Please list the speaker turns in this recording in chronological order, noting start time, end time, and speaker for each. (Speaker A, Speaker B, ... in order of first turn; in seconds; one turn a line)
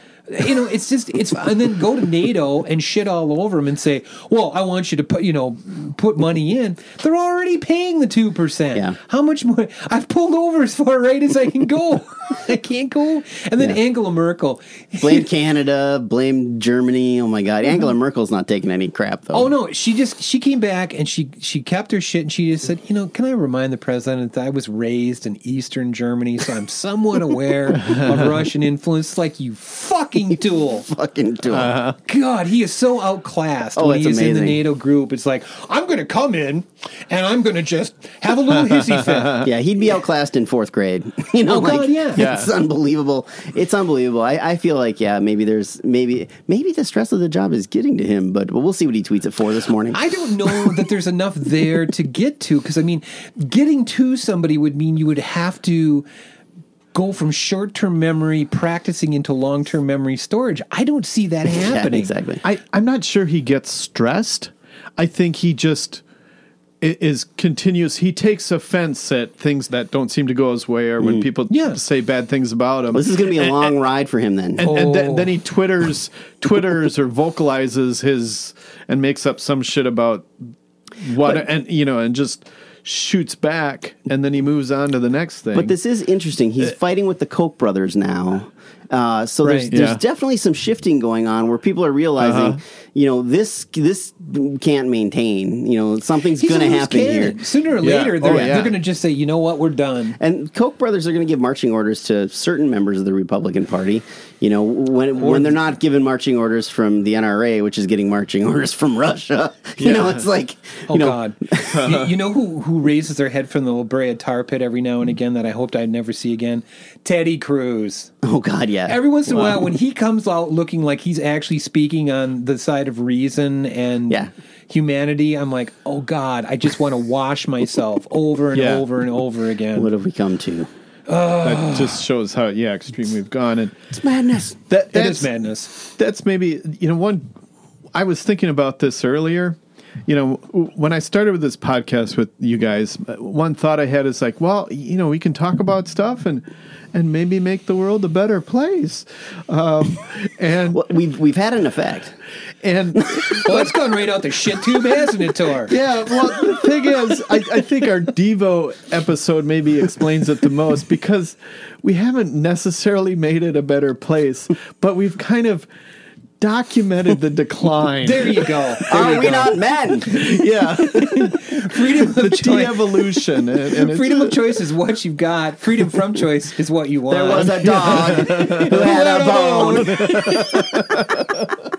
Speaker A: 0.3-15.3
Speaker B: 15.0-19.5
Speaker A: 19.3-30.9
Speaker C: 27.9-28.2
Speaker B: 30.3-31.8
Speaker C: 31.5-32.0
Speaker A: 32.1-39.5
Speaker B: 33.7-34.6
Speaker C: 38.7-39.4
Speaker B: 39.4-50.9
Speaker A: 41.5-42.2
Speaker C: 42.2-42.5
Speaker A: 49.9-56.1
Speaker A: 56.9-62.1
Speaker B: 61.5-62.4
Speaker C: 62.4-66.0
Speaker C: 66.8-73.7
Speaker B: 71.0-71.3
Speaker A: 71.5-71.8
Speaker B: 72.9-74.7
Speaker C: 74.6-80.3
Speaker A: 74.6-75.3
Speaker C: 81.0-85.8
Speaker B: 81.2-81.5
Speaker B: 85.5-97.4
Speaker A: 89.4-89.7
Speaker C: 89.7-90.0
Speaker C: 92.2-92.6
Speaker A: 96.4-100.2
Speaker C: 97.8-98.8
Speaker B: 98.2-98.7
Speaker B: 100.2-111.8
Speaker A: 105.2-105.6
Speaker C: 109.8-110.2
Speaker A: 110.9-118.1
Speaker C: 111.7-112.1
Speaker B: 118.2-119.5
Speaker A: 118.9-129.9
Speaker C: 128.5-128.8
Speaker B: 129.8-130.7
Speaker A: 131.1-132.0
Speaker C: 131.4-133.8
Speaker B: 133.9-134.6
Speaker C: 134.7-137.3
Speaker A: 134.9-135.7
Speaker C: 137.9-150.8
Speaker B: 150.7-152.2
Speaker C: 152.6-153.7
Speaker A: 153.4-155.7
Speaker C: 155.7-165.7
Speaker C: 166.4-168.8
Speaker A: 168.0-169.6
Speaker B: 168.9-170.2
Speaker C: 170.1-174.6
Speaker A: 170.9-172.8
Speaker A: 173.7-180.6
Speaker B: 177.1-181.0
Speaker C: 177.7-178.8
Speaker C: 179.9-181.5